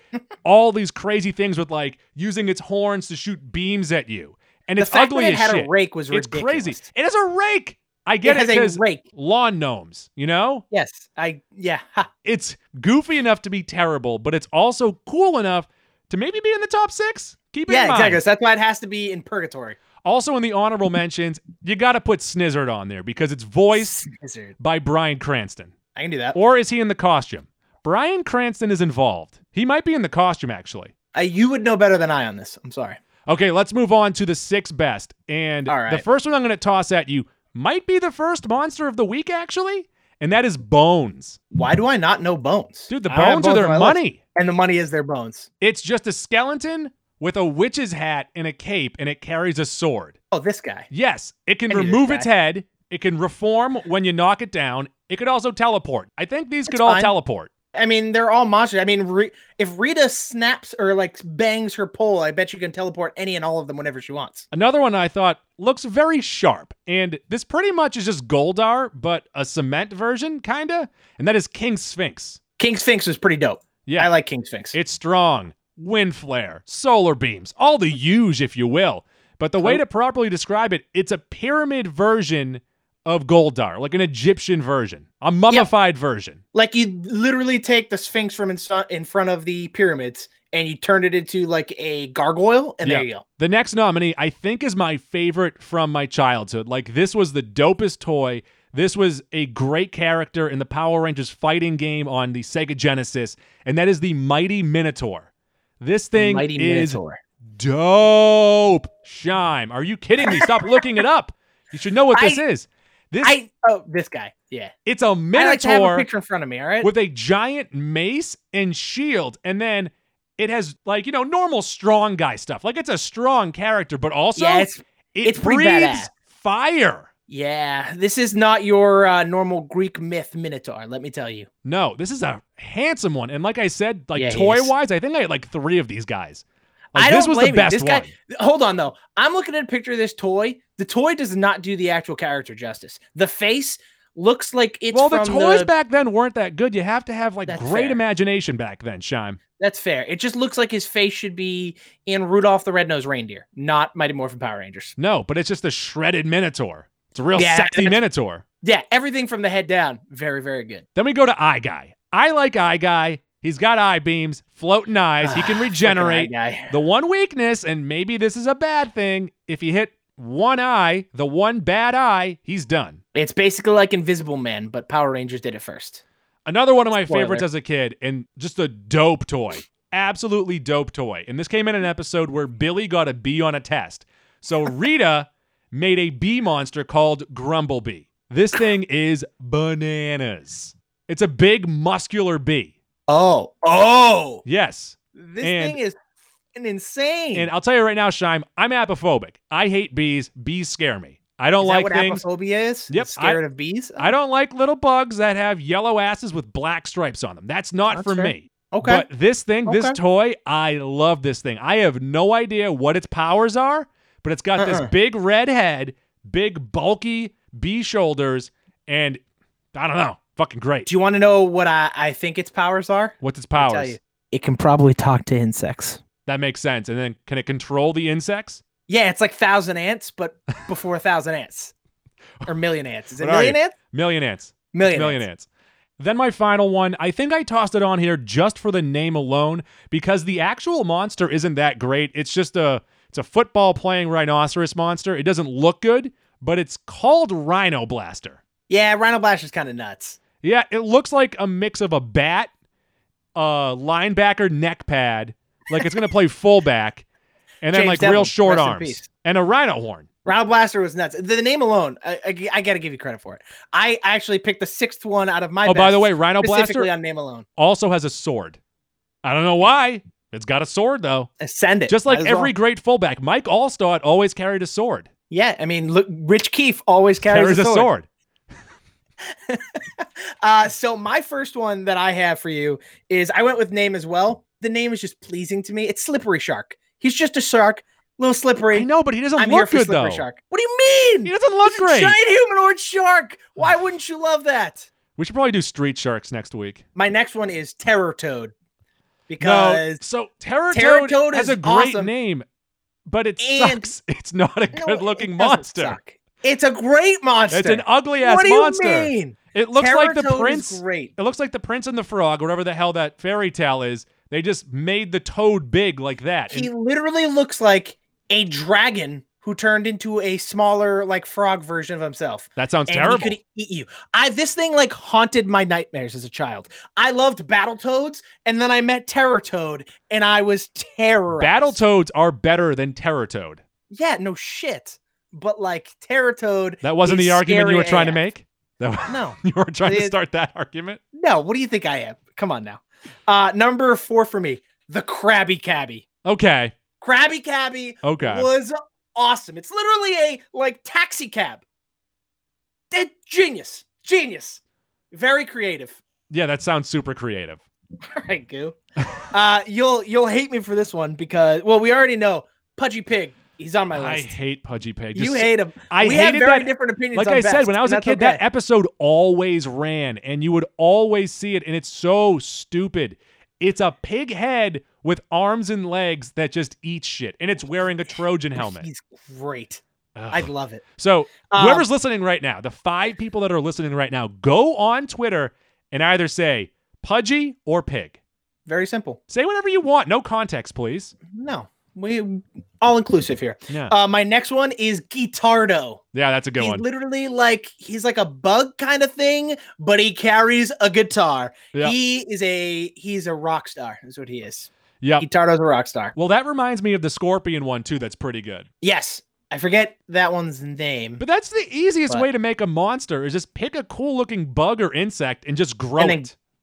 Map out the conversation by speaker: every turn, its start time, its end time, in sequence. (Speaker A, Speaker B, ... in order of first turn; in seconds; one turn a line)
Speaker A: 0.4-10.6
Speaker B: 4.8-6.8
Speaker B: 8.2-9.0
Speaker B: 10.7-12.1
Speaker A: 12.2-18.2
Speaker B: 17.7-19.8
Speaker A: 20.0-24.0
Speaker B: 23.8-24.5
Speaker A: 24.6-25.7
Speaker B: 25.9-26.4
Speaker A: 26.3-30.9
Speaker B: 31.1-33.0
Speaker A: 33.3-41.4
Speaker B: 35.7-36.0
Speaker B: 41.5-45.5
Speaker A: 42.9-44.2
Speaker A: 45.6-50.1
Speaker B: 50.3-50.9
Speaker A: 50.9-57.5
Speaker B: 51.7-52.3
Speaker B: 56.7-57.1
Speaker B: 57.7-64.5
Speaker A: 64.5-72.4
Speaker B: 72.6-74.7
Speaker A: 73.8-74.1
Speaker A: 74.7-86.4
Speaker B: 86.5-93.2
Speaker A: 92.8-105.3
Speaker A: 105.8-107.0
Speaker B: 106.2-107.2
Speaker A: 107.5-113.3
Speaker B: 110.2-110.6
Speaker B: 112.1-112.4
Speaker B: 113.2-114.7
Speaker A: 114.8-116.0
Speaker B: 115.3-116.9
Speaker A: 116.8-127.1
Speaker B: 124.3-126.1
Speaker B: 127.3-131.5
Speaker A: 131.6-136.4
Speaker B: 134.1-134.7
Speaker A: 136.9-138.1
Speaker B: 136.9-145.7
Speaker A: 144.9-149.4
Speaker B: 147.5-148.0
Speaker B: 149.6-154.9
Speaker A: 155.0-158.4
Speaker B: 157.3-158.0
Speaker B: 158.6-160.8
Speaker A: 160.9-173.0
Speaker B: 165.2-166.7
Speaker B: 173.1-176.0
Speaker A: 176.4-192.7
Speaker B: 177.1-177.4
Speaker B: 193.1-194.4
Speaker A: 194.4-195.8
Speaker B: 195.2-195.9
Speaker B: 196.5-197.5
Speaker A: 197.3-202.2
Speaker B: 201.6-204.1
Speaker A: 202.9-203.4
Speaker A: 204.0-219.2
Speaker B: 207.9-209.0
Speaker B: 209.7-210.0
Speaker B: 214.6-214.9
Speaker A: 219.7-220.9
Speaker B: 220.9-226.0
Speaker A: 223.2-224.0
Speaker A: 226.2-228.6
Speaker B: 228.9-231.7
Speaker B: 232.4-233.7
Speaker A: 233.2-235.4
Speaker B: 234.7-235.2
Speaker A: 236.0-248.4
Speaker B: 248.7-250.2
Speaker A: 250.4-252.5
Speaker A: 253.3-257.0
Speaker A: 257.6-260.1
Speaker B: 257.7-259.0
Speaker B: 260.2-267.4
Speaker A: 265.6-266.9
Speaker A: 267.6-268.6
Speaker A: 269.2-271.3
Speaker B: 271.4-272.5
Speaker A: 271.9-275.1
Speaker B: 275.3-277.9
Speaker A: 277.2-278.1
Speaker B: 279.5-294.9
Speaker A: 288.7-290.2
Speaker A: 291.2-292.2
Speaker A: 295.1-296.8
Speaker B: 296.9-298.5
Speaker B: 299.3-300.0
Speaker A: 299.4-302.4
Speaker B: 300.7-302.1
Speaker A: 303.1-306.0
Speaker B: 303.4-303.9
Speaker B: 304.7-311.1
Speaker A: 307.5-316.7
Speaker B: 316.5-331.8
Speaker A: 322.6-323.4
Speaker A: 331.4-333.6
Speaker B: 333.9-338.2
Speaker A: 336.8-341.0
Speaker B: 339.1-340.1
Speaker B: 341.1-346.0
Speaker A: 346.2-346.7
Speaker B: 347.0-351.6
Speaker A: 348.0-348.5
Speaker B: 352.9-354.6
Speaker B: 355.1-356.0
Speaker A: 356.3-357.6
Speaker B: 358.1-358.8
Speaker B: 359.3-364.3
Speaker A: 363.9-378.9
Speaker B: 365.1-368.4
Speaker B: 378.6-379.8
Speaker A: 380.1-388.2
Speaker B: 380.3-380.8
Speaker B: 381.5-381.8
Speaker B: 388.7-389.2
Speaker A: 389.3-391.1
Speaker B: 391.3-396.0
Speaker A: 393.7-393.9
Speaker A: 396.1-396.8
Speaker B: 396.6-404.7
Speaker A: 405.0-405.3
Speaker B: 405.2-406.1
Speaker A: 406.1-408.7
Speaker B: 408.8-411.2
Speaker A: 411.2-416.3
Speaker B: 416.0-416.3